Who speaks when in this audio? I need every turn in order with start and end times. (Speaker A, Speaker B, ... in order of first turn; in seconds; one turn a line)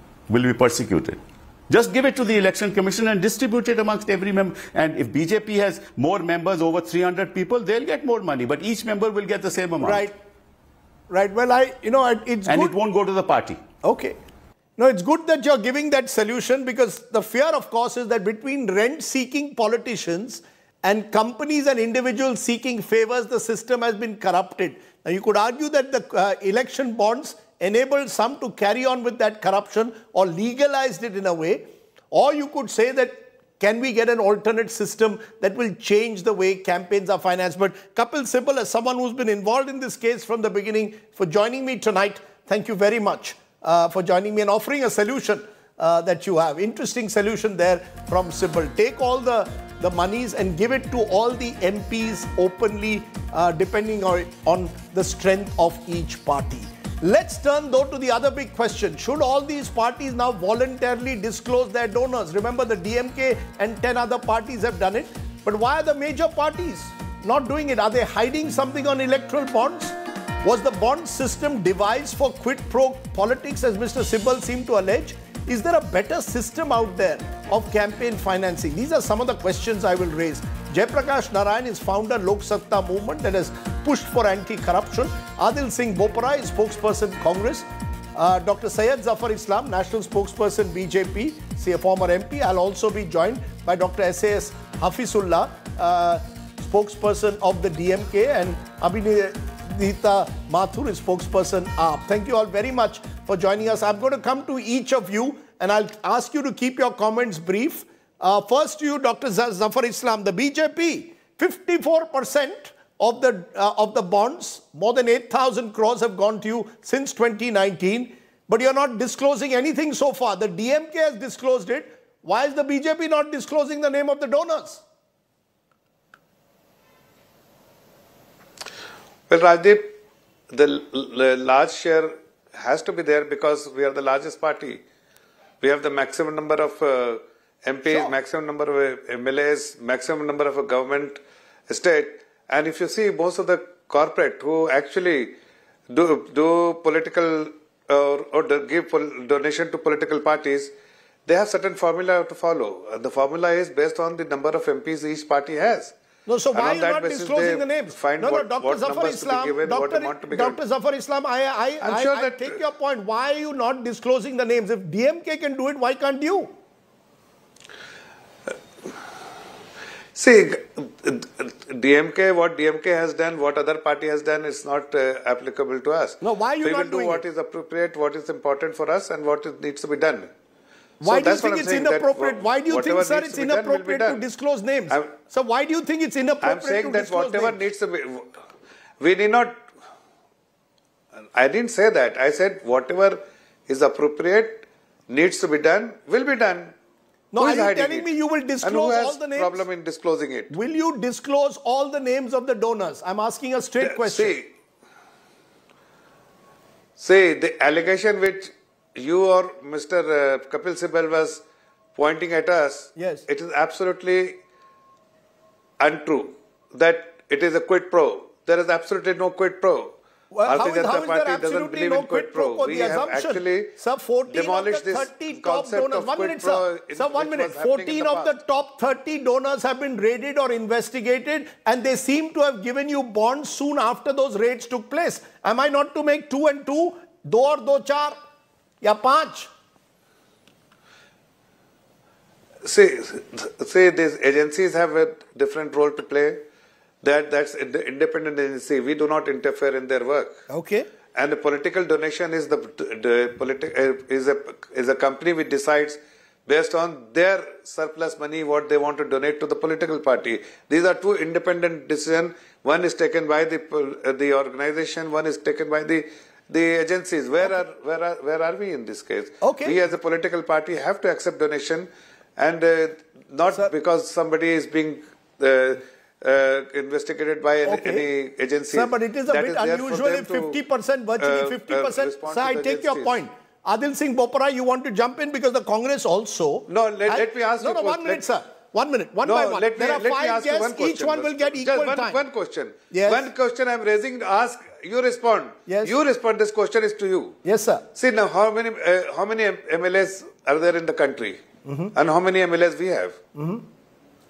Speaker A: 0.3-10.1
Speaker B: 9.8-10.2
Speaker B: 11.1-12.7
Speaker A: 12.4-13.6
Speaker B: 13.8-14.2
Speaker B: 14.8-124.8
Speaker C: 129.3-129.9
Speaker C: 130.5-134.8
Speaker C: 135.6-145.3
Speaker B: 137.9-138.1
Speaker C: 145.9-150.7
Speaker C: 151.2-155.9
Speaker B: 156.3-166.5
Speaker C: 156.5-160.6
Speaker C: 161.8-162.6
Speaker C: 170.1-180.3
Speaker B: 176.2-177.2
Speaker C: 181.0-184.2
Speaker B: 181.0-187.6
Speaker C: 184.9-185.2
Speaker C: 186.4-188.4
Speaker C: 189.0-189.7
Speaker C: 191.3-196.7
Speaker B: 197.3-199.6
Speaker C: 197.3-198.1
Speaker C: 198.6-200.5
Speaker B: 200.5-204.3
Speaker C: 203.8-204.5
Speaker C: 207.0-211.4
Speaker C: 211.9-214.4
Speaker B: 212.9-213.2
Speaker C: 215.8-219.9
Speaker B: 220.3-238.2
Speaker C: 220.4-223.7
Speaker C: 224.3-228.3
Speaker B: 238.8-239.5
Speaker C: 242.6-246.4
Speaker C: 247.0-250.4
Speaker B: 250.5-250.9
Speaker C: 251.2-280.6
Speaker B: 269.4-269.8
Speaker B: 277.6-278.1
Speaker B: 278.7-292.2
Speaker C: 281.2-283.2
Speaker C: 286.7-288.3
Speaker C: 289.2-297.4
Speaker B: 292.9-293.2
Speaker B: 295.7-295.9
Speaker B: 297.4-297.8
Speaker C: 297.9-301.4
Speaker B: 301.6-301.9
Speaker C: 301.9-303.2
Speaker B: 303.4-303.6